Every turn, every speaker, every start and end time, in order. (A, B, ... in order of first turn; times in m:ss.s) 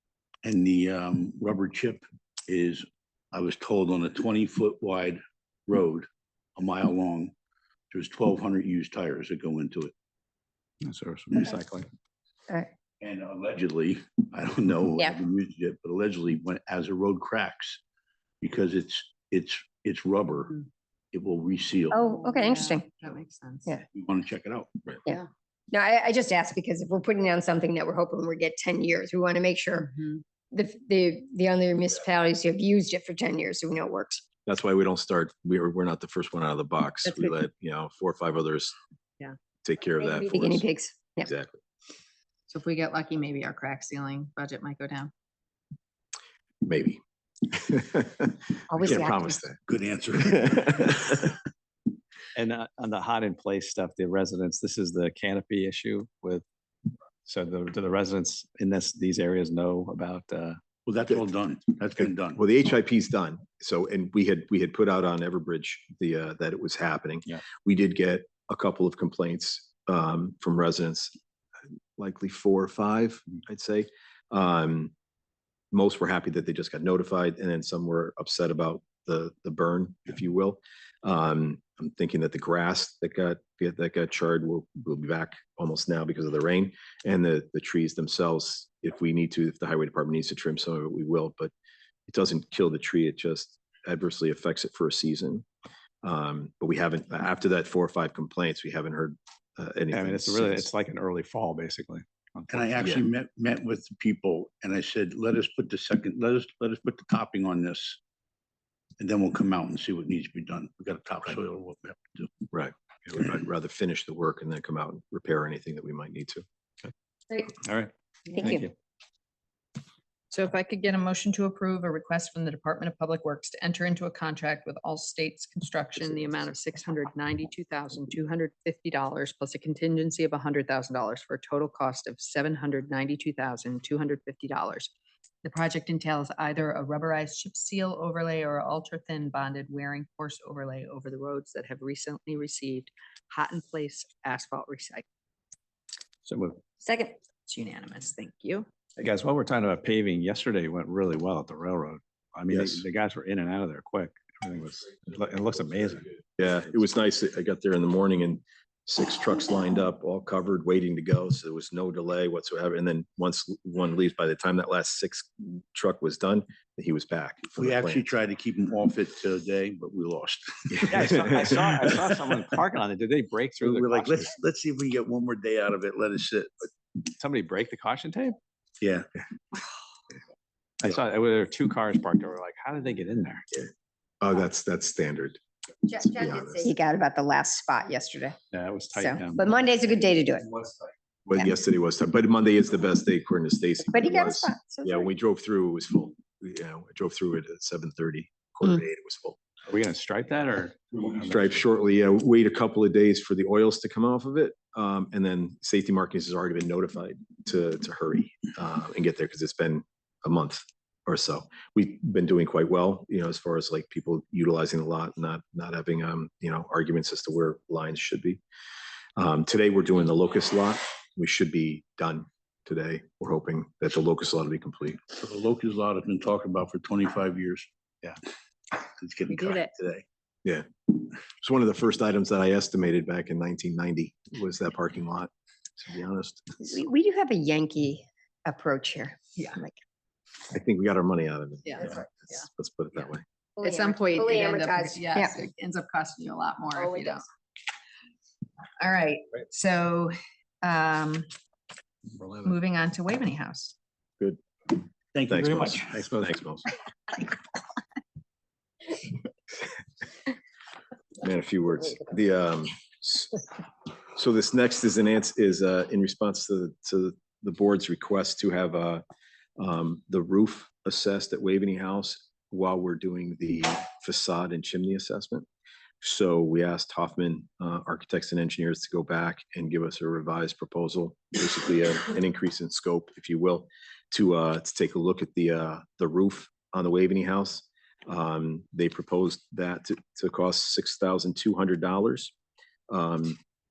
0:00.4-0:07.3 A
0:07.9-0:09.9 A
0:10.8-0:11.9 B
0:13.0-0:17.8 A
0:18.4-0:22.0 A
0:21.9-0:22.9 C
0:22.0-0:23.8 D
0:23.9-0:24.7 A
0:25.0-0:29.9 C
0:29.9-0:30.2 D
0:30.5-0:34.2 C
0:34.4-0:38.7 E
0:39.6-0:40.6 E
0:40.0-0:41.3 C
0:41.2-0:41.6 E
0:42.5-0:45.1 D
0:46.6-0:49.6 E
0:48.7-0:49.4 C
0:49.7-0:51.3 A
0:50.5-0:51.2 E
0:52.3-0:56.4 B
0:57.2-1:00.6 B
1:00.8-1:02.4 A
1:02.0-1:11.1 E
1:12.0-1:14.9 E
1:15.7-1:31.5 E
1:32.1-1:35.4 E
1:36.0-1:40.7 E
1:39.9-1:42.8 B
1:42.5-1:48.0 A
1:49.0-1:52.3 A
1:52.5-1:56.4 E
1:57.4-1:58.7 B
1:58.3-1:58.7 C
2:00.3-2:14.9 D
2:15.4-2:25.0 D
2:26.2-2:26.6 B
2:26.8-2:27.2 C
2:27.5-2:28.7 D
2:29.0-2:36.1 B
2:32.5-2:32.8 E
2:36.4-2:48.1 E
2:47.6-2:52.6 A
2:50.8-2:51.5 E
2:50.9-2:54.4 B
2:53.6-2:56.7 A
2:57.0-2:58.4 B
2:58.8-2:59.0 A
3:00.8-3:03.4 B
3:03.5-3:05.4 E
3:05.9-3:08.4 C
3:06.0-3:06.7 E
3:08.5-3:09.5 B
3:09.0-3:10.7 C
3:11.2-3:19.4 E
3:13.9-3:15.1 C
3:19.7-3:21.6 B
3:21.2-3:38.4 E
3:39.2-3:45.0 E
3:45.2-3:47.7 A
3:48.7-3:50.0 A
3:49.3-3:49.7 D
3:50.4-3:56.7 E
3:56.6-3:59.8 C
4:00.5-4:03.2 E
4:01.7-4:02.3 D
4:03.6-4:05.3 C
4:03.6-4:07.3 D
4:06.8-4:07.2 C
4:08.8-4:11.3 D
4:12.2-4:12.5 B
4:12.4-4:13.7 D
4:14.2-4:16.7 E
4:15.1-4:15.9 A
4:15.4-4:16.4 B
4:21.2-4:23.4 E
4:24.1-4:29.0 E
4:29.6-4:35.5 E
4:36.0-4:52.3 E
4:52.9-4:53.4 E